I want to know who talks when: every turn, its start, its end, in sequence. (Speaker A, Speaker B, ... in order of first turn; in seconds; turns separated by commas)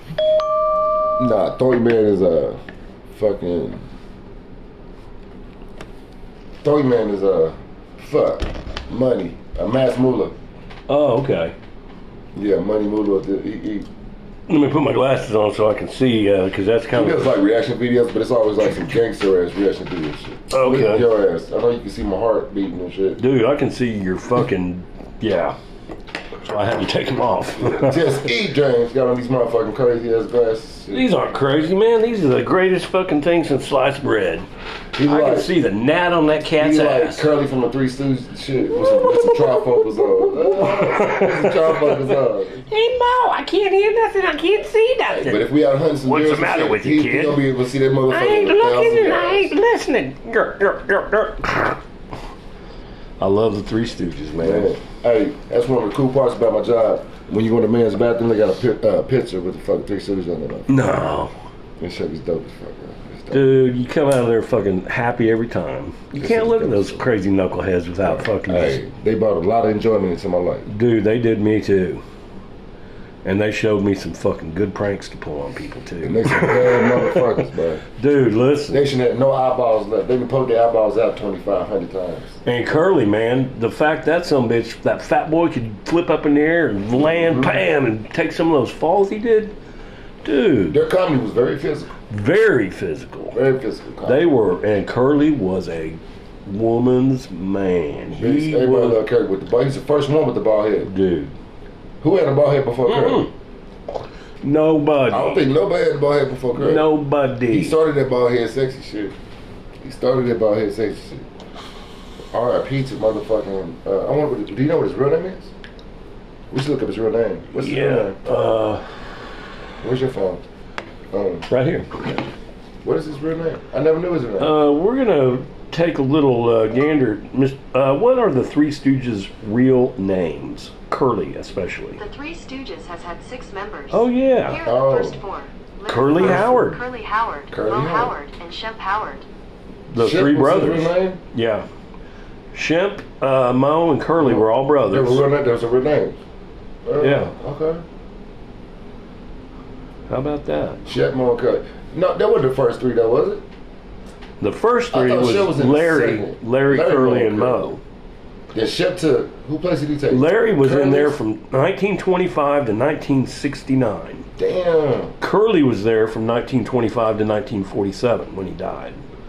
Speaker A: 1.2-2.6, Speaker A: 3.1-3.8, Speaker A: 6.6-10.4, Speaker B: 10.9-11.5, Speaker A: 12.3-13.9, Speaker B: 14.5-17.3, Speaker A: 16.9-23.2, Speaker B: 20.5-21.1, Speaker B: 23.2-25.6, Speaker B: 26.4-28.3, Speaker A: 27.6-31.1, Speaker B: 30.9-34.5, Speaker A: 34.9-35.5, Speaker B: 35.0-37.2, Speaker A: 36.6-42.6, Speaker B: 38.7-42.1, Speaker B: 42.7-45.5, Speaker A: 45.1-49.5, Speaker B: 46.0-47.4, Speaker B: 48.1-51.8, Speaker B: 53.2-54.8, Speaker A: 54.4-60.7, Speaker B: 60.7-61.3, Speaker A: 61.8-63.5, Speaker B: 63.3-68.8, Speaker A: 66.1-67.1, Speaker A: 68.0-70.7, Speaker B: 70.7-72.0, Speaker B: 73.2-77.4, Speaker A: 76.0-77.8, Speaker B: 78.0-78.8, Speaker A: 78.7-82.4, Speaker B: 82.4-89.5, Speaker A: 87.0-87.6, Speaker B: 90.2-90.8, Speaker A: 90.7-91.9, Speaker B: 92.1-93.4, Speaker A: 93.3-94.2, Speaker B: 94.0-99.0, Speaker A: 98.1-100.9, Speaker B: 100.8-101.3, Speaker A: 102.0-103.2, Speaker B: 102.8-103.3, Speaker B: 104.4-105.4, Speaker A: 105.1-106.9, Speaker B: 106.5-107.7, Speaker A: 107.5-109.1, Speaker A: 109.8-111.2, Speaker A: 112.3-115.5, Speaker A: 116.5-118.2, Speaker B: 117.5-118.8, Speaker A: 119.8-120.4, Speaker A: 121.1-121.5, Speaker B: 121.5-122.0, Speaker A: 122.8-124.5, Speaker B: 124.4-132.0, Speaker C: 132.0-139.2, Speaker B: 133.9-134.6, Speaker A: 134.6-135.2, Speaker B: 135.9-136.8, Speaker A: 136.1-136.6, Speaker A: 137.5-138.1, Speaker B: 139.9-141.7, Speaker A: 140.0-141.2, Speaker B: 142.5-145.2, Speaker A: 144.2-146.2, Speaker A: 146.8-147.8, Speaker B: 147.0-147.3, Speaker B: 150.1-150.9, Speaker A: 150.8-153.4, Speaker B: 154.4-157.8, Speaker A: 154.9-157.7, Speaker A: 158.5-161.2, Speaker B: 160.1-164.3, Speaker A: 164.4-165.1, Speaker B: 165.2-169.0